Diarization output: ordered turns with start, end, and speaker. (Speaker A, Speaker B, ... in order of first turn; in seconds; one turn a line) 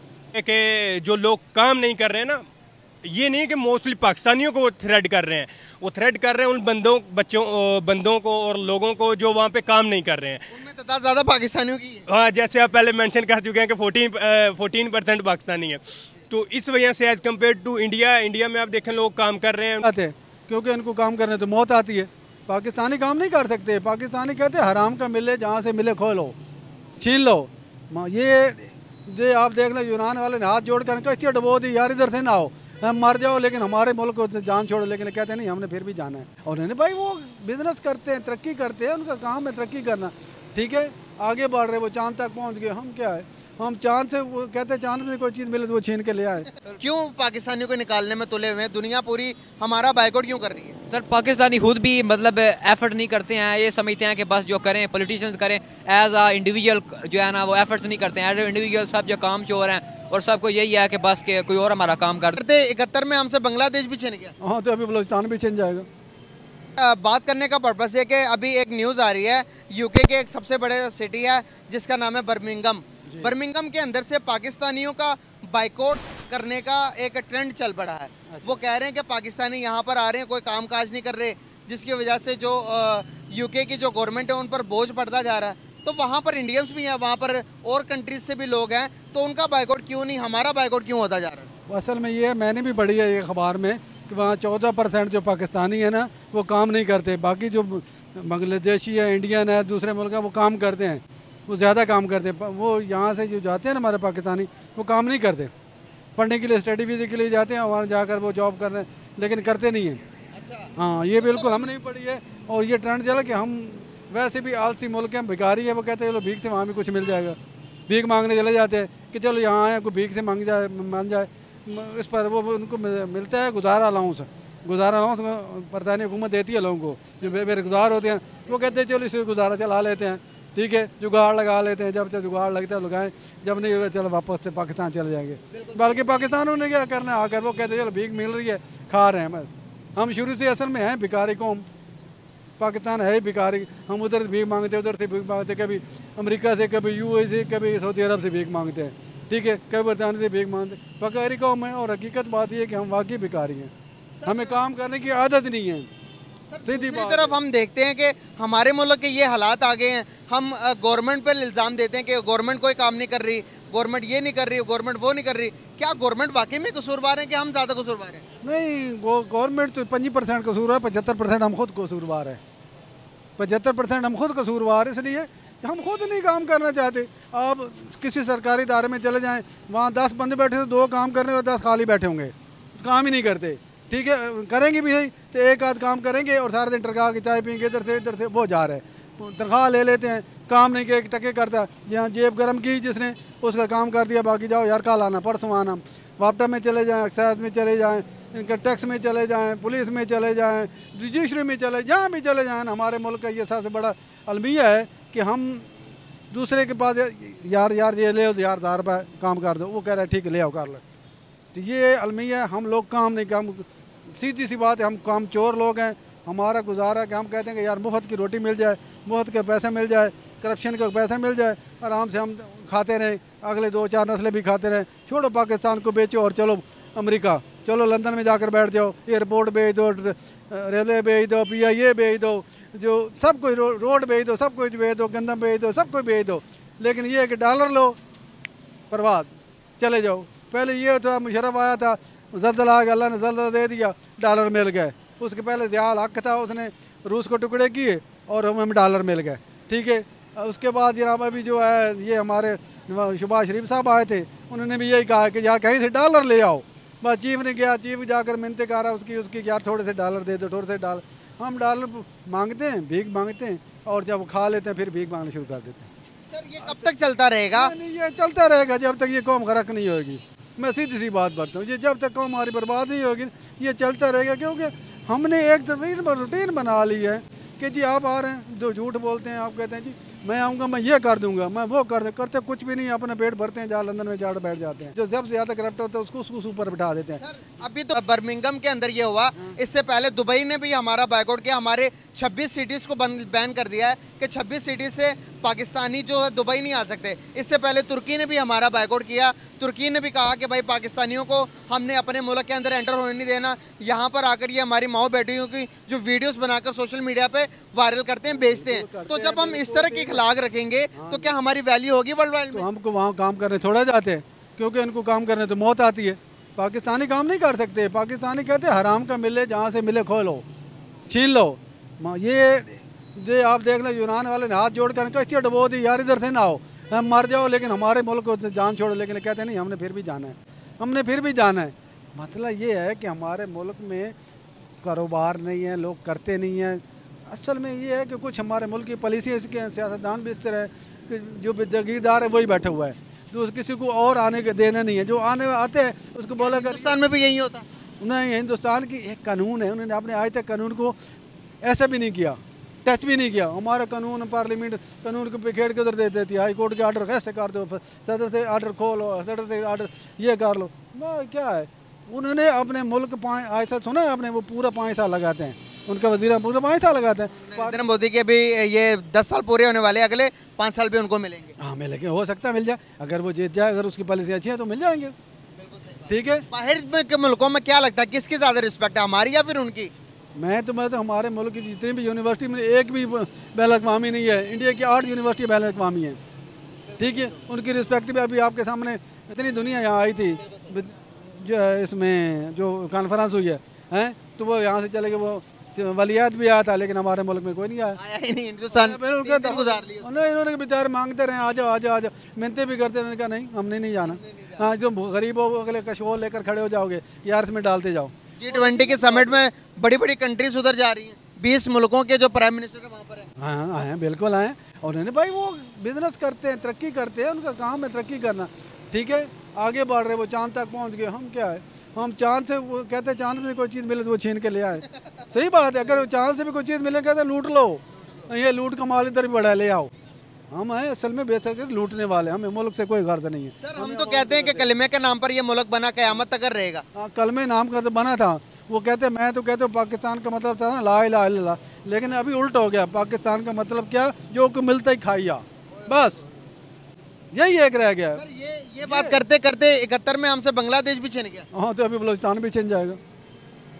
Speaker A: 0.3-2.4
Speaker A: 3.0-10.5
Speaker B: 10.5-12.1
Speaker A: 12.1-19.8
Speaker C: 19.8-26.3
Speaker C: 26.9-46.5
Speaker B: 46.8-50.8
Speaker D: 50.9-62.4
Speaker B: 62.3-64.3
Speaker C: 64.4-65.9
Speaker B: 66.8-91.5
Speaker C: 78.3-78.6
Speaker C: 91.7-105.5
Speaker C: 106.2-110.0
Speaker B: 110.3-111.7
Speaker C: 110.8-117.4
Speaker C: 117.9-141.7
Speaker B: 127.2-128.8
Speaker B: 135.5-136.0
Speaker C: 142.6-153.7
Speaker B: 154.2-154.6
Speaker C: 154.2-155.9
Speaker B: 156.5-168.2
Speaker C: 156.6-157.4
Speaker C: 168.4-172.4
Speaker C: 173.4-205.7
Speaker C: 206.3-210.8
Speaker C: 211.5-238.0
Speaker C: 238.9-265.9
Speaker B: 266.3-267.7
Speaker C: 266.6-266.9
Speaker C: 267.5-287.2
Speaker B: 287.2-312.6
Speaker C: 308.3-310.2
Speaker C: 310.9-311.4
Speaker C: 312.5-320.4
Speaker C: 321.1-334.1
Speaker C: 334.8-347.0
Speaker B: 346.4-347.6
Speaker C: 348.0-350.9
Speaker C: 351.6-367.8
Speaker B: 367.3-371.5
Speaker C: 371.6-375.1
Speaker B: 375.6-379.9
Speaker C: 376.1-376.4
Speaker C: 380.4-386.2
Speaker B: 386.9-387.4
Speaker C: 387.0-398.0
Speaker B: 390.4-390.7
Speaker B: 397.9-400.1
Speaker C: 398.7-409.4
Speaker B: 404.0-404.6
Speaker B: 408.4-413.3
Speaker C: 413.4-429.9
Speaker C: 430.5-434.7
Speaker B: 433.6-436.8
Speaker C: 436.9-446.2
Speaker C: 447.3-448.2
Speaker B: 448.1-451.4
Speaker C: 448.8-449.2
Speaker C: 451.5-453.0